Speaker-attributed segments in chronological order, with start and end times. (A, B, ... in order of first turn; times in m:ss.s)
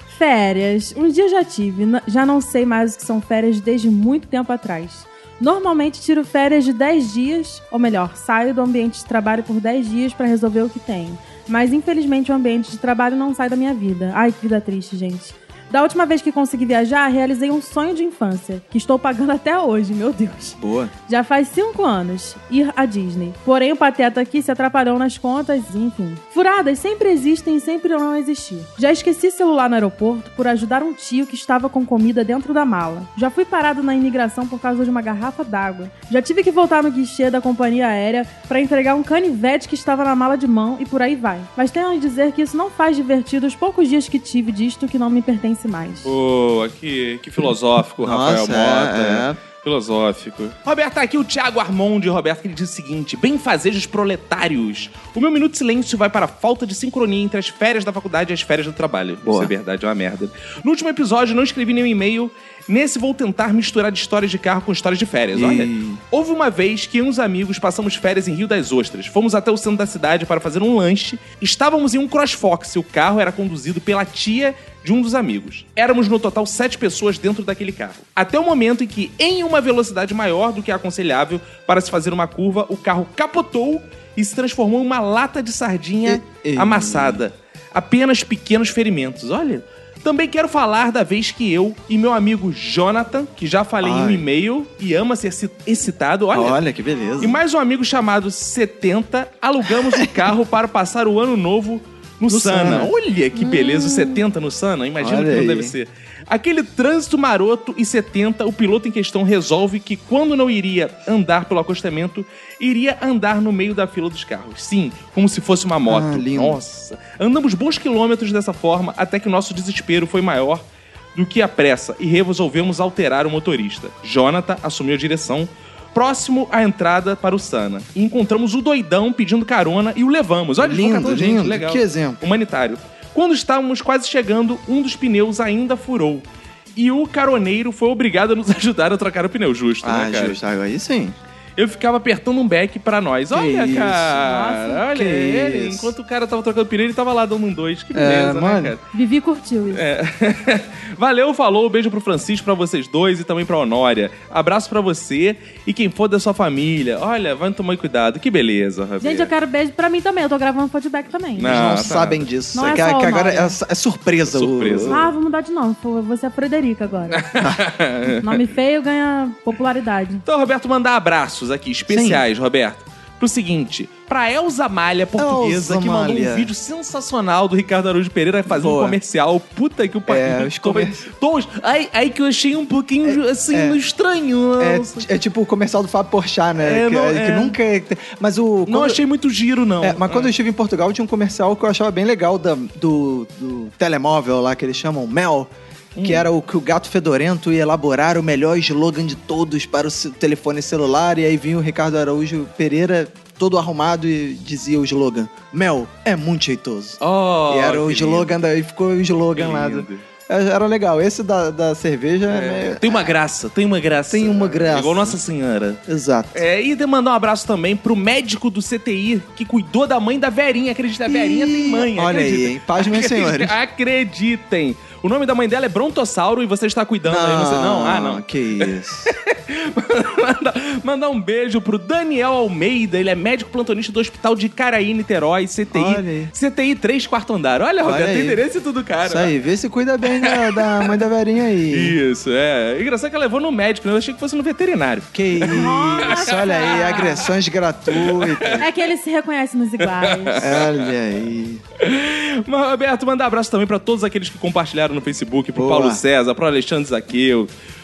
0:00.2-0:46.1 A
0:20.6-0:20.9 B
0:46.0-1:36.6 C
0:48.0-0:49.4 B
0:59.2-0:59.5 B
1:05.3-1:06.0 B
1:26.0-1:27.2 B
1:33.8-1:34.3 B
1:36.3-1:37.4 B
1:37.2-2:00.6 C
1:42.3-1:42.9 B
1:43.4-1:44.2 A
1:45.0-1:45.8 B
1:55.9-1:56.6 B
2:01.2-2:20.4 C
2:10.6-2:12.2 B
2:19.8-2:21.2 B
2:21.6-2:28.8 C
2:23.3-2:24.3 B
2:24.2-2:24.8 A
2:24.9-2:25.9 B
2:27.9-2:28.8 B
2:28.9-2:29.8 A
2:29.7-2:39.3 C
2:39.0-2:41.6 A
2:41.4-2:42.3 C
2:41.4-2:45.1 B
2:42.5-2:43.6 A
2:44.3-2:45.1 C
2:44.9-2:47.3 A
2:47.2-2:48.4 C
2:48.2-2:50.2 A
2:50.3-3:05.0 C
2:51.9-2:52.2 B
2:55.2-2:56.5 B
2:58.5-2:59.0 B
3:00.1-3:01.0 B
3:03.0-3:03.8 B
3:04.6-3:09.0 B
3:06.6-3:07.6 C
3:08.7-3:10.3 C
3:09.8-3:15.5 B
3:16.0-3:16.3 C
3:16.0-3:33.1 B
3:27.0-3:28.3 C
3:29.3-3:30.0 C
3:32.3-3:35.8 C
3:34.1-3:35.2 B
3:35.9-3:36.4 B
3:36.3-3:59.3 C
3:41.1-3:43.6 B
3:47.1-3:49.2 B
3:55.7-3:56.3 B
3:57.8-3:58.4 B
3:59.0-4:02.0 B
4:00.2-4:01.0 C
4:01.7-4:07.1 C
4:05.1-4:08.7 B
4:05.5-4:07.3 A
4:08.0-4:08.6 C
4:08.6-4:10.4 A
4:09.9-4:10.8 C
4:10.4-4:11.6 B
4:11.8-4:17.5 C
4:15.6-4:16.0 B